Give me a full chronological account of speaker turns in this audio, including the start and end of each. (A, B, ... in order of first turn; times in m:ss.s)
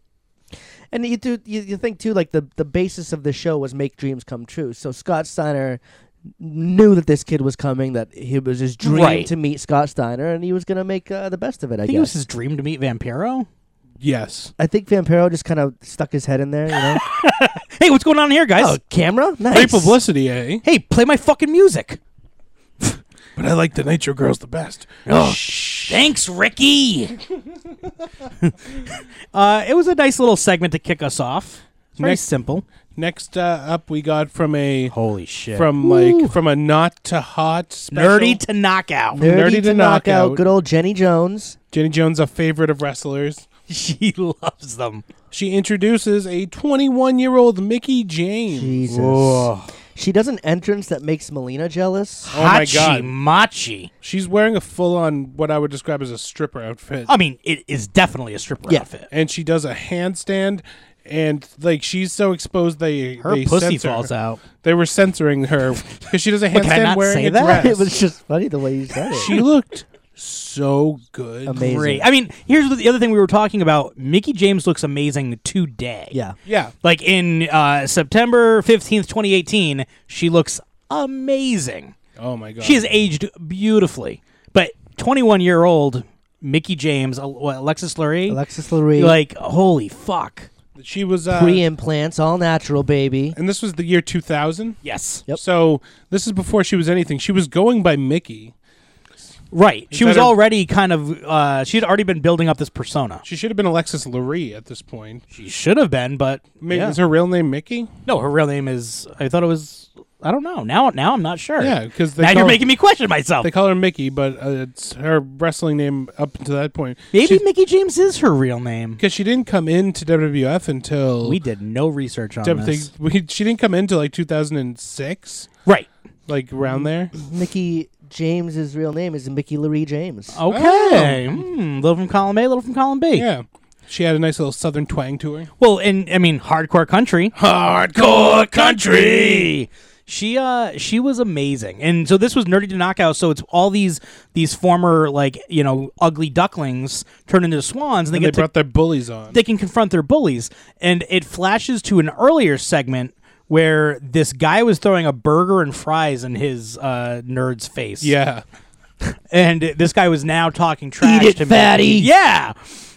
0:00.9-0:05.8 A
0:06.4-0:12.1 A
0:08.8-0:09.3 B
0:11.8-0:13.5 B
0:14.0-0:14.5 C
0:14.6-0:17.0 A
0:16.9-0:18.8 B
0:18.6-0:20.0 A
0:19.5-0:20.6 C
0:20.6-0:22.0 B
0:23.4-0:26.1 C
0:25.0-0:27.2 B
0:28.4-0:32.6 B
0:32.0-0:32.2 C
0:32.9-0:34.9 C
0:34.9-0:35.9 B
0:35.5-0:38.4 C
0:35.8-0:36.3 A
0:37.9-0:39.2 B
0:39.1-0:41.6 A
0:39.2-0:40.4 C
0:41.7-0:43.4 C
0:43.7-0:45.0 B
0:45.3-0:48.8 C
0:48.5-0:52.3 A
0:48.9-0:49.7 B
0:52.3-0:53.9 B
0:52.3-0:53.1 C
0:54.0-0:57.1 C
0:57.1-0:59.1 B
0:59.1-1:07.9 C
1:03.2-1:04.4 B
1:06.5-1:07.7 B
1:07.5-1:09.3 A
1:09.1-1:11.6 C
1:11.4-1:12.1 A
1:11.5-1:16.1 B
1:16.4-1:16.7 C
1:16.8-1:21.9 B
1:22.2-1:22.8 C
1:22.6-1:28.4 B
1:28.3-1:29.2 A
1:28.9-1:30.5 B
1:30.8-1:31.6 C
1:31.3-1:33.4 A
1:33.3-1:34.8 C
1:34.8-1:35.2 B
1:35.3-1:38.5 C
1:39.5-1:43.2 B
1:39.9-1:40.4 C
1:43.2-1:45.2 C
1:45.3-1:47.0 B
1:46.6-1:47.9 C
1:48.1-1:53.5 B
1:51.6-1:52.6 C
1:53.4-1:57.4 C
1:57.1-1:59.0 B
1:59.0-2:01.4 C
2:01.2-2:02.9 B
2:02.4-2:05.5 C
2:06.3-2:07.1 C
2:07.1-2:10.4 A
2:10.3-2:13.2 B
2:10.5-2:11.4 C
2:13.1-2:15.5 C
2:15.6-2:17.3 B
2:17.3-2:19.5 C
2:17.9-2:28.5 B
2:28.1-2:29.4 C
2:29.3-2:38.1 B
2:38.0-2:38.4 C
2:39.3-2:42.6 B
2:41.0-2:42.1 A